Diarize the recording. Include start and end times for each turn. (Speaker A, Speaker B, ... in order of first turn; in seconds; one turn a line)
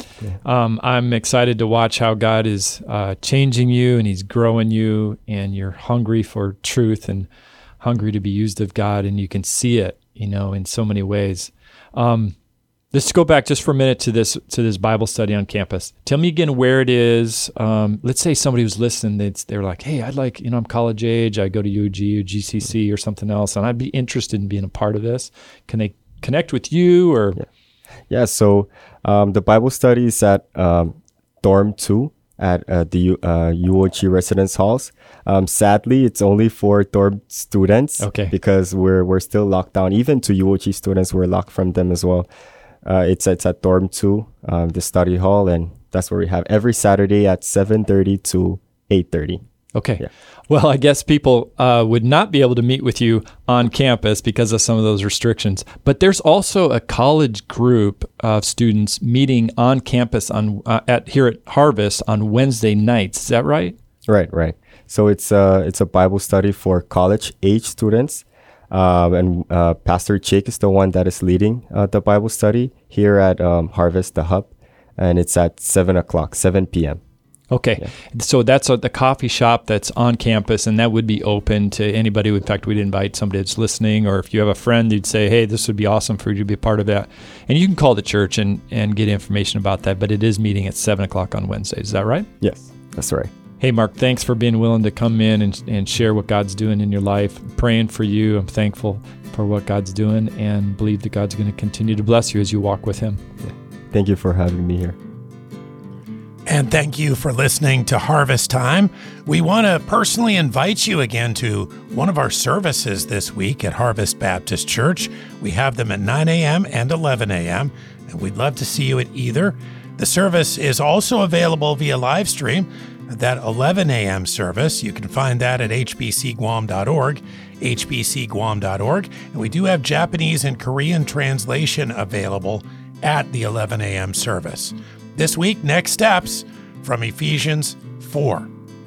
Speaker A: 0.4-7.3
Speaker A: 7.8-12.3
Speaker A: 12.9-27.4
Speaker B: 28.1-42.3
Speaker A: 38.0-38.3
Speaker B: 42.9-49.4
Speaker A: 49.8-63.8
Speaker B: 64.1-77.0
Speaker A: 77.5-92.3
Speaker B: 92.4-93.3
Speaker A: 93.6-103.2
Speaker B: 103.4-105.0
Speaker C: 106.5-138.5